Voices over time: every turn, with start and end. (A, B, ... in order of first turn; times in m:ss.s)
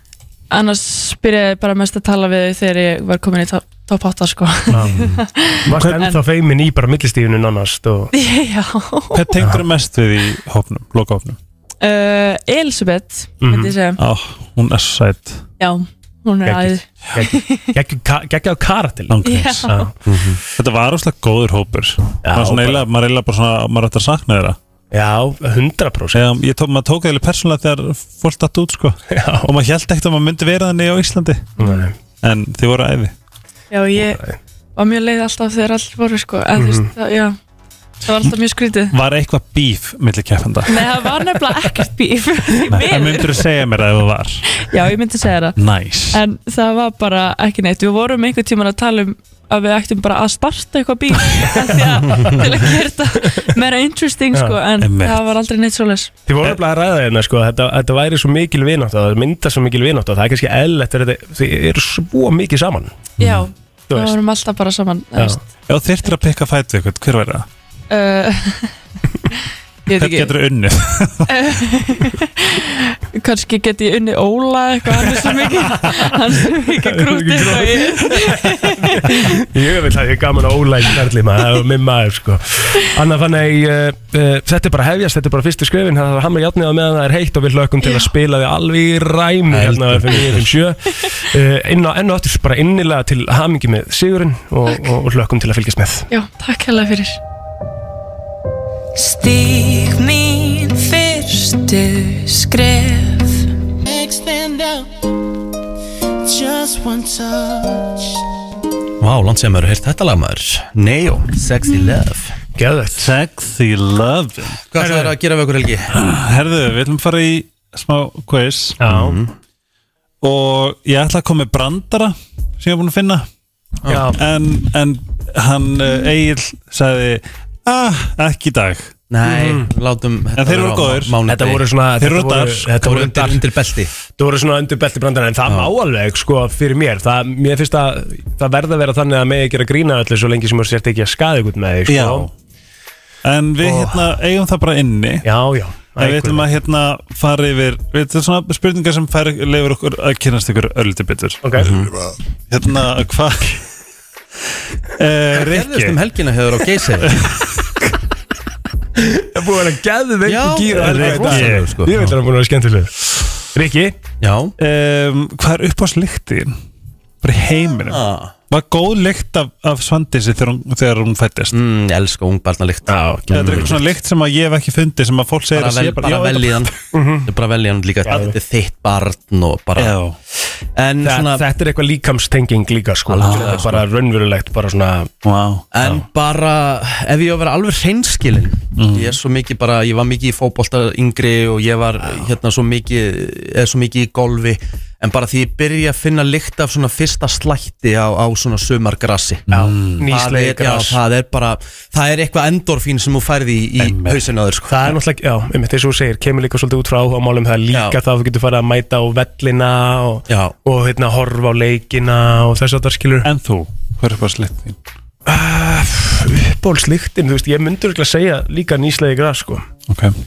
0:00.5-0:06.2 A
0:04.7-0:05.0 B
0:05.6-0:08.1 B
0:08.1-0:09.4 A
0:09.1-0:11.4 C
0:11.8-0:14.0 A
0:13.4-0:13.7 B
0:14.0-0:15.4 C
0:15.6-0:17.7 A
0:16.4-0:19.9 B
0:19.1-0:19.7 C
0:19.2-0:19.9 A
0:20.0-0:20.4 D
0:20.6-0:24.6 C
0:22.2-0:22.8 B
0:24.9-0:26.2 B
0:26.1-0:31.5 C
0:29.1-0:29.5 B
0:31.6-0:31.9 B
0:31.6-0:31.9 A
0:32.2-0:33.1 C
0:33.7-0:34.2 A
0:34.0-0:34.4 B
0:34.8-0:37.4 A
0:36.6-0:36.9 B
0:38.1-0:38.9 A
0:38.9-0:41.0 C
0:40.7-0:43.4 A
0:42.7-0:44.4 C
0:44.6-0:45.6 A
0:45.6-0:46.2 C
0:46.1-0:56.2 A
0:52.0-0:52.4 B
0:54.8-0:55.3 C
0:56.3-1:03.0 B
1:03.2-1:03.5 C
1:03.2-1:05.4 A
1:03.9-1:04.2 B
1:05.7-1:07.5 C
1:07.9-1:08.7 A
1:09.9-1:10.4 A
1:10.0-1:11.4 C
1:11.3-1:19.4 A
1:15.8-1:16.1 B
1:16.8-1:18.4 B
1:19.0-1:36.1 B
1:27.8-1:28.1 A
1:29.5-1:30.5 D
1:36.1-1:37.2 A
1:39.0-1:43.3 A
1:44.0-1:44.6 E
1:46.4-1:47.8 E
1:49.0-1:52.3 D
1:52.6-1:53.1 B
1:53.0-1:54.6 C
1:54.7-1:55.9 D
1:54.8-1:55.1 B
1:55.9-1:58.8 C
1:58.8-1:59.2 B
1:58.9-1:59.3 D
2:00.2-2:03.3 C
2:03.9-2:04.2 B
2:03.9-2:08.9 C
2:09.1-2:11.6 D
2:09.2-2:09.7 B
2:10.4-2:11.2 C
2:11.3-2:13.5 B
2:12.0-2:12.7 C
2:12.8-2:13.9 D
2:14.2-2:22.3 B
2:15.5-2:15.7 D
2:21.9-2:22.3 C
2:23.2-2:25.3 C
2:23.6-2:24.0 B
2:25.2-2:26.5 B
2:26.0-2:31.7 C
2:31.4-2:31.8 B
2:31.6-2:31.9 D
2:32.5-2:33.6 C
2:34.9-2:36.0 C
2:35.3-2:37.1 D
2:37.1-2:37.5 C
2:39.0-2:42.9 B
2:40.2-2:41.9 D
2:40.8-2:42.1 C
2:43.5-2:44.0 B
2:44.2-2:44.6 D
2:44.6-2:46.6 C
2:47.2-2:51.6 C
2:47.9-2:48.4 D
2:51.5-2:53.8 D
2:52.9-2:53.8 B
2:53.3-2:56.7 C
2:55.5-2:56.7 D
2:56.9-2:57.3 B
2:57.2-3:00.0 D
2:58.0-2:58.4 B
2:59.8-3:00.2 C
3:00.8-3:01.4 D
3:01.0-3:05.1 B
3:03.1-3:03.8 D
3:03.2-3:03.8 C
3:05.2-3:05.6 C
3:05.7-3:24.8 D
3:08.8-3:09.2 C
3:19.5-3:20.0 C
3:20.0-3:21.0 B
3:23.8-3:24.2 C
3:24.7-3:33.3 B
3:27.7-3:28.0 D
3:30.3-3:30.6 D
3:33.2-3:34.8 C
3:35.3-3:39.7 B
3:39.9-3:40.2 C